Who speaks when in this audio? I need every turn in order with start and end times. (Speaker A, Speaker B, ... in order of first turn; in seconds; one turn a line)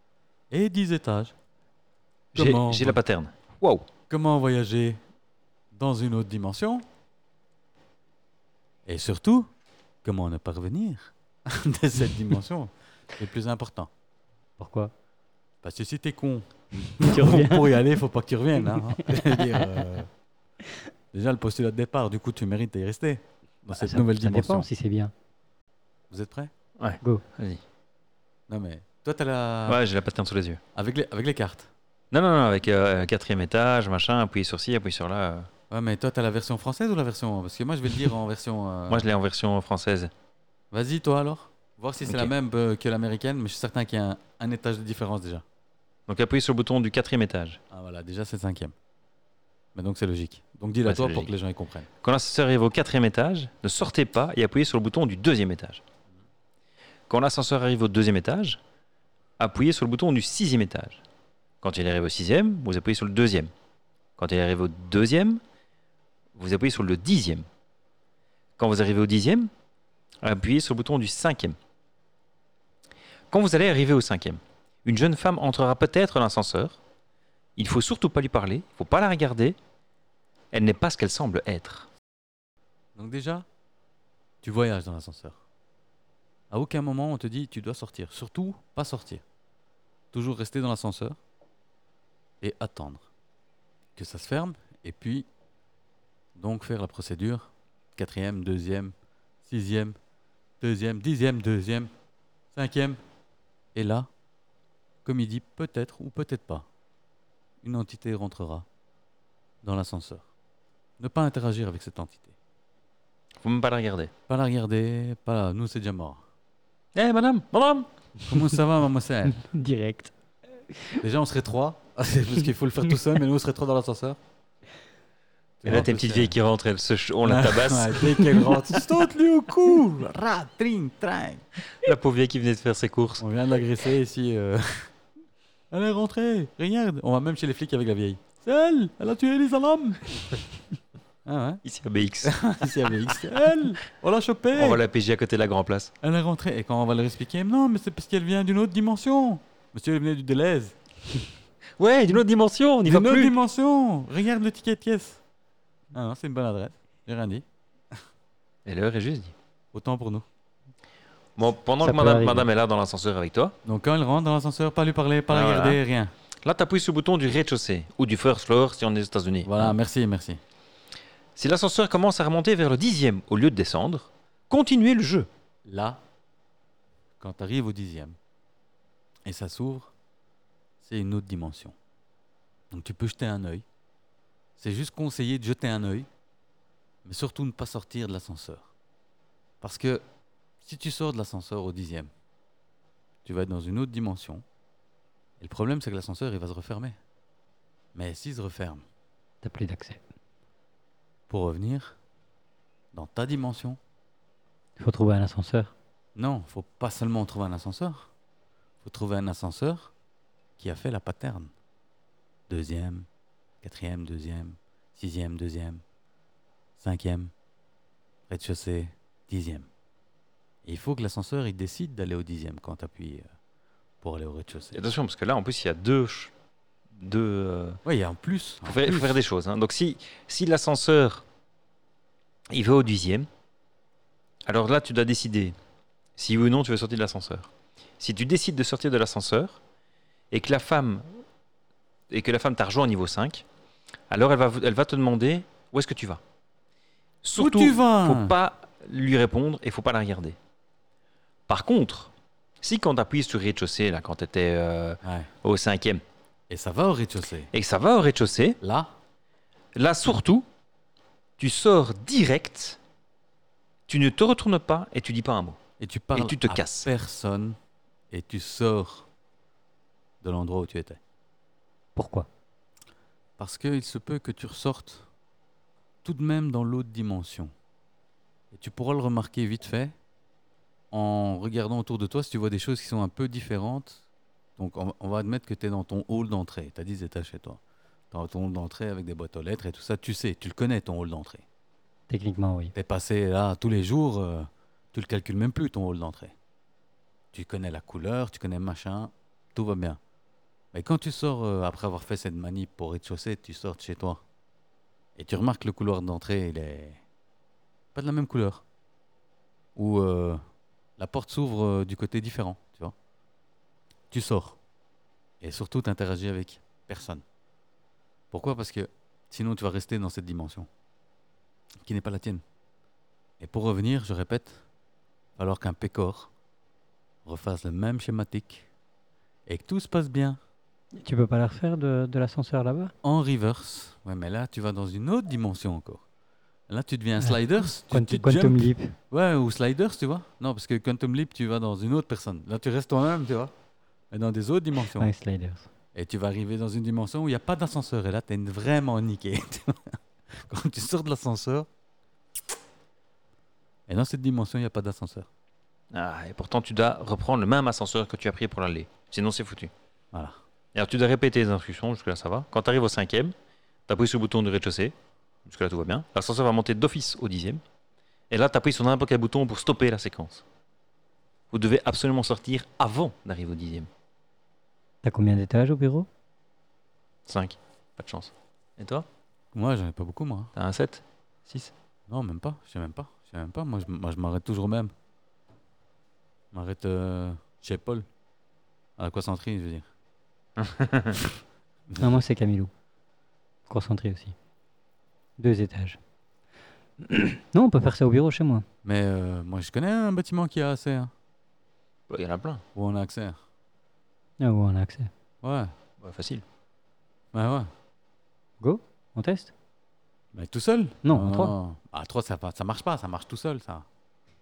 Speaker A: 0.5-1.3
Speaker A: 2.3-3.0
Speaker B: 2.3-3.9
Speaker A: 4.1-5.0
Speaker A: 5.7-6.9
Speaker A: 8.9-9.5
Speaker A: 10.0-13.9
Speaker C: 14.6-14.9
Speaker A: 15.6-20.1
Speaker C: 16.9-17.8
Speaker C: 18.9-19.8
Speaker A: 21.1-24.7
Speaker C: 23.7-25.1
Speaker A: 26.1-26.5
Speaker B: 26.8-27.6
Speaker A: 28.5-29.8
Speaker B: 29.7-30.6
Speaker A: 30.7-31.7
Speaker B: 32.1-35.5
Speaker A: 35.7-39.1
Speaker B: 38.9-40.1
Speaker A: 40.7-45.5
Speaker B: 42.1-42.3
Speaker B: 46.1-47.6
Speaker A: 47.7-48.7
Speaker A: 49.7-51.9
Speaker B: 50.9-51.3
Speaker B: 52.0-55.8
Speaker B: 57.1-58.6
Speaker B: 59.4-61.0
Speaker B: 61.6-63.5
Speaker B: 64.2-65.4
Speaker B: 66.3-67.5
Speaker B: 68.6-69.5
Speaker B: 70.2-71.6
Speaker B: 73.3-76.8
Speaker B: 77.6-79.6
Speaker B: 80.5-81.9
Speaker A: 83.0-83.5
Speaker A: 84.4-85.4
Speaker A: 86.5-89.2
Speaker A: 90.1-91.2
Speaker A: 92.4-93.1
Speaker A: 94.0-95.3
Speaker A: 96.3-100.0
Speaker A: 100.6-101.9
Speaker A: 102.5-103.0
Speaker A: 103.7-104.1
Speaker A: 105.0-106.7
Speaker A: 107.6-108.7
Speaker A: 109.6-110.2
Speaker A: 111.0-112.3
Speaker B: 113.4-114.1
Speaker A: 114.3-116.2
Speaker B: 117.0-117.9
Speaker A: 118.3-119.4
Speaker C: 119.3-120.1
Speaker A: 121.0-124.2
Speaker A: 125.6-126.4
Speaker B: 125.6-128.6
Speaker A: 127.2-131.4
Speaker B: 131.7-133.2
Speaker A: 133.2-134.9
Speaker A: 135.7-140.0
Speaker A: 141.2-141.6
Speaker B: 141.6-143.2
Speaker A: 142.2-144.8
Speaker B: 144.5-145.9
Speaker A: 146.0-151.2
Speaker B: 151.8-153.4
Speaker A: 152.8-155.2
Speaker A: 155.9-157.4
Speaker B: 158.6-159.3
Speaker A: 159.7-160.3
Speaker B: 161.4-163.6
Speaker C: 161.8-162.5
Speaker A: 163.6-166.1
Speaker B: 165.3-165.8
Speaker B: 166.4-169.7
Speaker A: 169.4-170.4
Speaker B: 171.4-175.3
Speaker A: 175.6-176.0
Speaker A: 177.2-178.2
Speaker A: 179.3-179.9
Speaker A: 180.8-181.7
Speaker A: 182.7-183.6
Speaker A: 184.6-186.1
Speaker A: 187.1-188.7
Speaker A: 189.6-190.0
Speaker A: 190.6-192.1
Speaker A: 193.2-194.4
Speaker A: 195.4-197.0
Speaker A: 197.9-198.8
Speaker C: 199.4-200.0
Speaker A: 201.3-202.0
Speaker A: 202.9-203.8
Speaker C: 204.8-205.7
Speaker A: 206.1-208.1
Speaker A: 208.8-209.9
Speaker A: 210.6-211.5
Speaker A: 212.5-213.1
Speaker A: 213.6-215.8
Speaker A: 216.8-217.3
Speaker A: 218.3-219.7
Speaker A: 220.6-223.3
Speaker A: 224.0-224.8
Speaker B: 224.7-226.3
Speaker B: 226.9-227.8
Speaker A: 227.8-229.2
Speaker B: 228.6-231.2
Speaker B: 232.5-233.3
Speaker B: 234.4-235.6
Speaker B: 236.2-239.6
Speaker B: 240.3-241.1
Speaker B: 242.1-243.4
Speaker B: 244.1-246.2
Speaker B: 247.2-250.4
Speaker A: 247.4-248.4
Speaker B: 251.5-252.1
Speaker B: 252.6-256.0
Speaker A: 255.0-255.3
Speaker A: 256.5-257.5
Speaker B: 257.5-258.6
Speaker A: 258.6-258.9
Speaker B: 259.7-260.4
Speaker B: 261.4-262.8
Speaker B: 263.9-265.6
Speaker A: 265.8-267.6
Speaker B: 266.1-266.9
Speaker A: 268.1-269.1
Speaker A: 270.2-271.0
Speaker C: 271.9-272.3
Speaker A: 273.4-275.1
Speaker A: 276.1-277.5
Speaker A: 278.5-279.9
Speaker A: 280.9-284.0
Speaker A: 284.6-291.4
Speaker C: 292.1-292.7
Speaker A: 292.7-296.3
Speaker A: 297.3-300.0
Speaker A: 300.7-304.2
Speaker A: 305.2-307.0
Speaker A: 307.9-308.6
Speaker A: 309.8-310.4
Speaker A: 311.0-312.9
Speaker A: 314.1-314.6
Speaker A: 315.4-317.2
Speaker A: 318.3-320.7
Speaker A: 321.8-322.4
Speaker A: 323.4-324.6
Speaker A: 325.4-326.3
Speaker A: 327.2-328.7
Speaker A: 329.4-330.4
Speaker C: 331.0-332.9
Speaker A: 333.0-336.0
Speaker A: 336.7-343.5
Speaker C: 337.2-338.9
Speaker A: 344.1-345.1
Speaker C: 345.0-345.7
Speaker A: 345.9-351.7
Speaker A: 353.9-355.3
Speaker B: 355.9-359.7
Speaker B: 360.7-363.3
Speaker B: 363.9-364.9
Speaker B: 365.4-367.6
Speaker B: 368.3-370.4
Speaker B: 371.5-373.9
Speaker C: 375.0-376.1
Speaker B: 377.3-379.1
Speaker A: 379.5-380.5
Speaker B: 380.6-381.7
Speaker A: 382.1-384.9
Speaker A: 386.5-388.1
Speaker A: 389.0-389.9
Speaker B: 390.6-391.2
Speaker A: 391.9-392.2
Speaker C: 392.0-392.7
Speaker C: 393.7-394.4
Speaker C: 395.4-396.0
Speaker C: 397.0-398.6
Speaker A: 398.8-401.1
Speaker B: 402.1-402.6
Speaker A: 402.7-403.4
Speaker C: 404.4-405.1
Speaker A: 405.4-405.7
Speaker B: 406.0-406.4
Speaker A: 407.3-407.7
Speaker C: 408.6-409.5
Speaker A: 410.3-413.9
Speaker C: 411.0-411.6